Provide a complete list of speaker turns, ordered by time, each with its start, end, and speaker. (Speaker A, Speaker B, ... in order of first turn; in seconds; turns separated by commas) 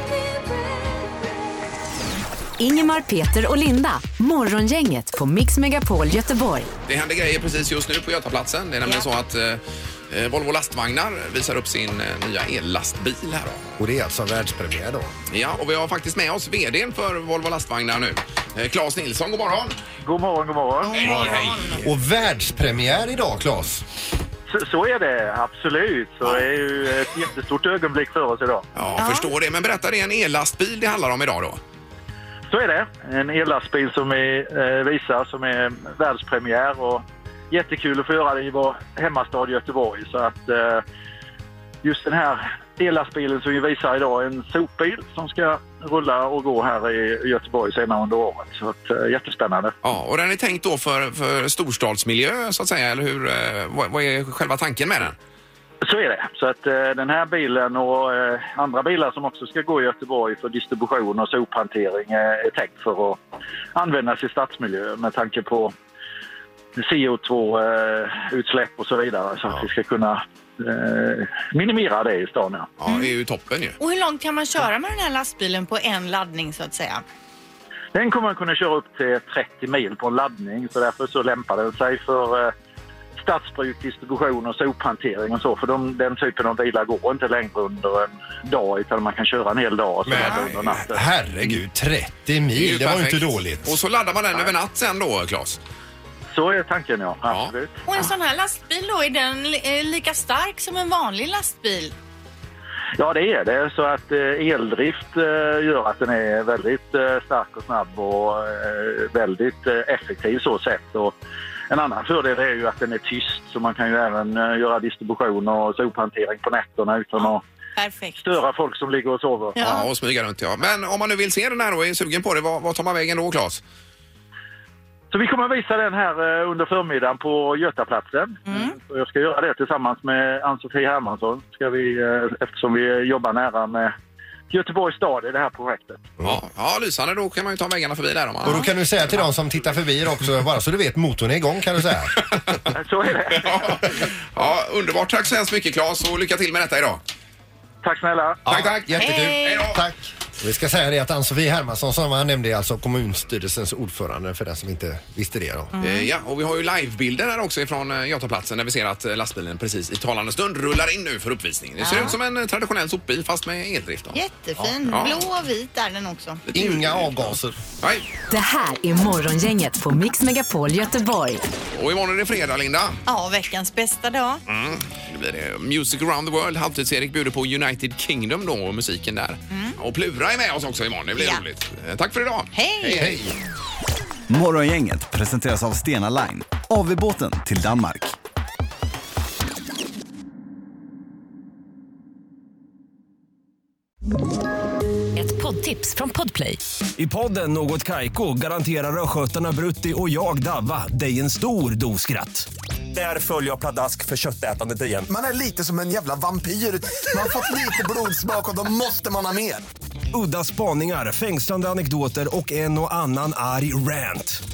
Speaker A: 2.6-6.7, Speaker B: 6.9-13.7, Speaker C: 13.8-15.1, Speaker B: 15.3-19.8, Speaker D: 20.0-21.0, Speaker E: 20.8-21.8, Speaker B: 20.9-21.8, Speaker C: 21.8-23.9, Speaker D: 24.5-28.7, Speaker B: 28.8-31.6, Speaker E: 29.0-29.3, Speaker D: 32.5-40.8, Speaker D: 41.8-49.8, Speaker B: 49.8-55.2, Speaker D: 55.8-63.2, Speaker D: 63.8-65.7, Speaker D: 66.8-72.7, Speaker B: 72.8-73.8, Speaker E: 73.8-77.0, Speaker D: 77.9-82.5, Speaker D: 83.2-91.0, Speaker C: 90.1-93.8, Speaker E: 90.1-90.5, Speaker B: 92.5-95.6, Speaker D: 96.3-97.8, Speaker B: 97.3-97.5, Speaker E: 97.9-102.0, Speaker D: 103.0-111.2, Speaker D: 111.7-117.4, Speaker E: 117.2-118.4, Speaker D: 118.2-119.6, Speaker E: 119.6-119.9, Speaker B: 119.6-123.6, Speaker D: 125.1-133.9, Speaker E: 128.5-128.8, Speaker D: 134.5-136.1, Speaker B: 136.2-139.2, Speaker C: 138.4-142.2, Speaker E: 138.4-138.7, Speaker B: 142.2-142.7, Speaker D: 142.7-143.7, Speaker B: 143.3-147.0, Speaker D: 147.8-148.4, Speaker C: 148.5-155.7, Speaker B: 148.5-149.8, Speaker E: 149.0-149.7, Speaker E: 155.8-156.1, Speaker B: 155.8-164.2, Speaker E: 161.8-162.2, Speaker E: 164.1-166.4, Speaker B: 164.9-165.3, Speaker C: 166.5-167.6, Speaker B: 166.5-168.1, Speaker A: 168.3-171.4, Speaker B: 171.7-173.0, Speaker E: 173.1-174.4, Speaker B: 174.5-183.2, Speaker E: 179.5-179.8, Speaker E: 181.2-181.4, Speaker E: 182.5-183.2, Speaker C: 183.0-183.3, Speaker F: 184.3-188.1, Speaker A: 195.2-196.6, Speaker G: 197.0-205.1, Speaker H: 205.1-209.6, Speaker G: 210.1-214.4